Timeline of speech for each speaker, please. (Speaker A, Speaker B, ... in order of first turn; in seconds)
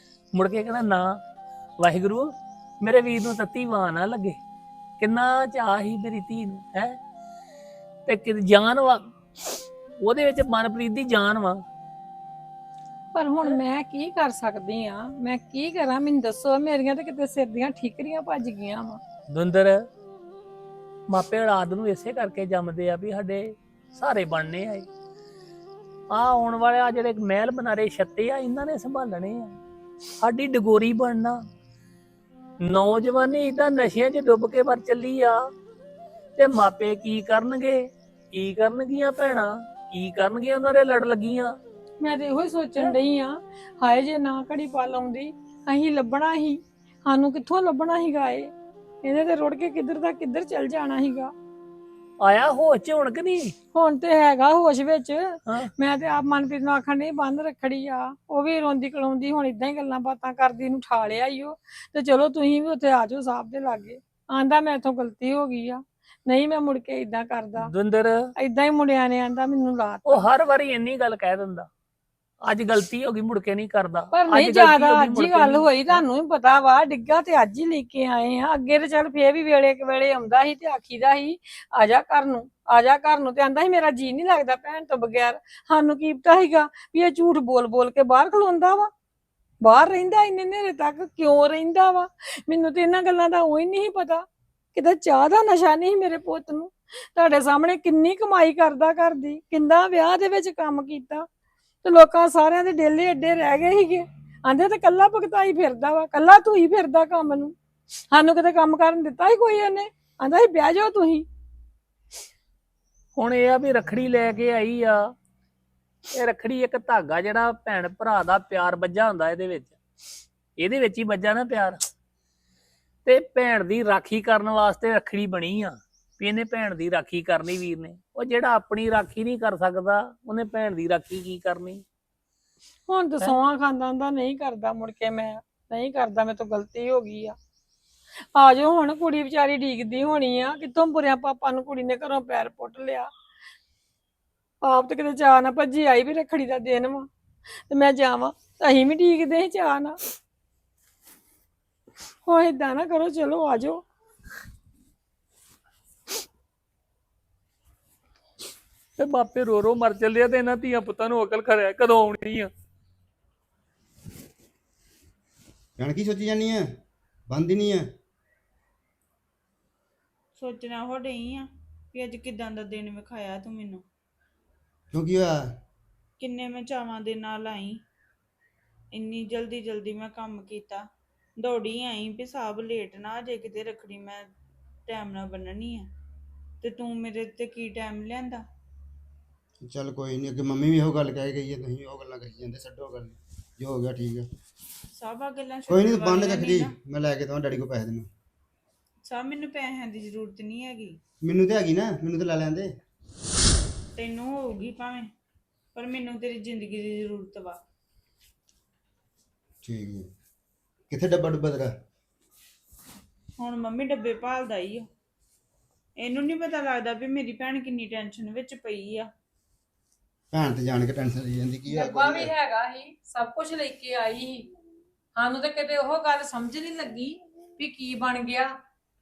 Speaker A: 0.3-1.2, 1.8-4.4, 5.0-7.0, 8.1-9.1, 10.0-11.6, 19.3-19.9, 21.1-24.9, 26.1-29.6, 30.2-31.4, 32.6-35.4, 36.4-41.5, 52.2-53.5, 67.6-68.3, 70.1-71.7, 72.4-76.0, 113.2-115.1, 116.1-119.8, 120.6-121.8, 123.0-131.8, 159.0-162.5
Speaker B: 13.1-19.0, 42.0-48.5, 49.0-51.3, 53.7-67.7, 68.4-70.3, 74.1-88.9, 89.6-101.3, 101.8-107.5, 108.1-111.3, 132.9-137.4, 138.3-143.1, 144.6-147.1, 147.7-150.0, 152.2-153.8, 221.7-224.5, 225.2-228.6
Speaker C: 165.8-166.8, 167.3-167.9, 174.9-175.6, 189.6-194.3, 195.7-198.1, 201.2-202.7, 209.6-210.1, 210.9-211.7, 220.3-222.3
Speaker D: 170.4-173.8, 176.2-177.8, 178.9-184.3, 184.9-185.9, 186.6-188.4, 194.9-196.7, 199.0-201.0, 204.0-205.1, 205.8-207.6, 213.4-214.9, 216.0-219.1